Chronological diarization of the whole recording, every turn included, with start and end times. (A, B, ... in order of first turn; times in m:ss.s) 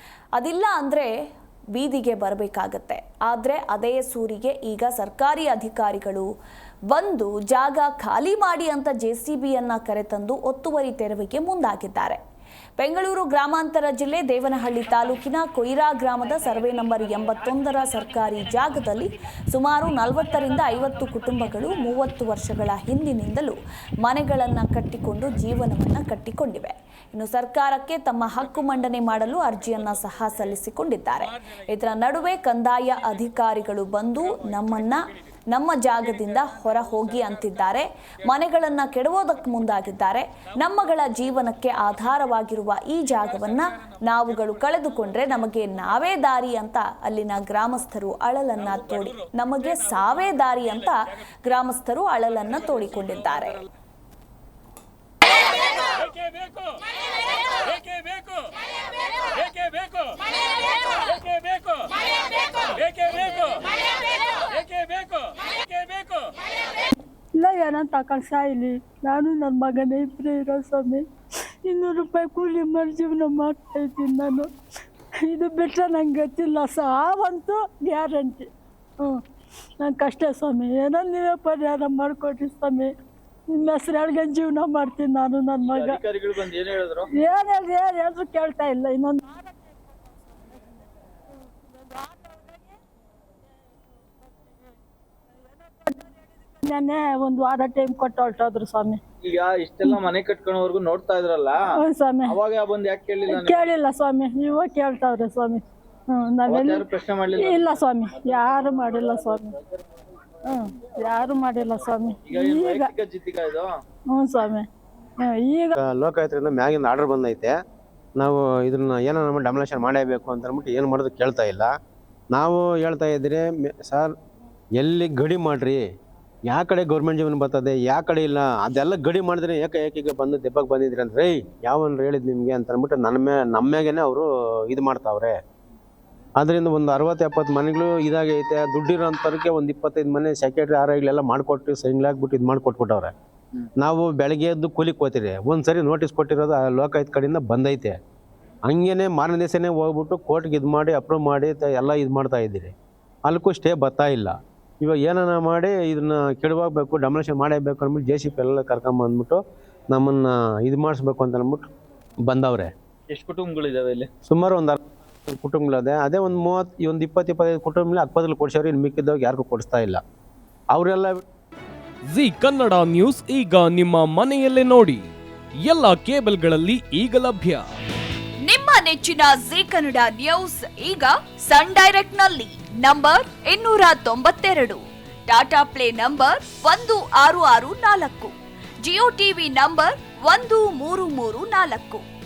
0:00.4-0:01.1 A
0:01.8-0:06.3 A
0:06.9-0:12.2 A
0:12.8-0:53.6 A
1:07.4-1:11.0 B
1:11.6-1:14.5 B
1:15.2-1:18.5 B
1:19.8-1:22.9 B
1:23.5-1:26.0 B
1:25.6-1:27.1 C
1:27.2-1:29.8 B
1:31.9-1:32.5 B
1:36.6-1:39.0 B
1:39.2-1:41.6 C
1:41.8-1:42.4 B
1:42.3-1:43.7 C
1:43.3-1:49.5 B
1:46.5-1:49.4 C
1:50.5-1:52.9 B
1:52.2-1:53.7 C
1:54.1-1:54.6 B
1:55.2-1:55.7 B
1:55.8-1:57.5 D
1:58.2-2:01.7 D
2:02.3-2:04.1 D
2:04.8-2:05.8 D
2:06.5-2:15.4 D
2:16.4-2:23.1 D
2:23.8-2:27.9 D
2:28.7-2:32.7 D
2:33.3-2:39.4 D
2:39.9-2:41.7 D
2:42.3-2:42.7 D
2:43.1-2:44.1 C
2:44.2-2:44.8 D
2:45.3-2:50.0 D
2:50.7-2:51.1 D
2:52.1-2:55.0 E
2:55.6-2:57.6 E
2:58.4-3:12.0 A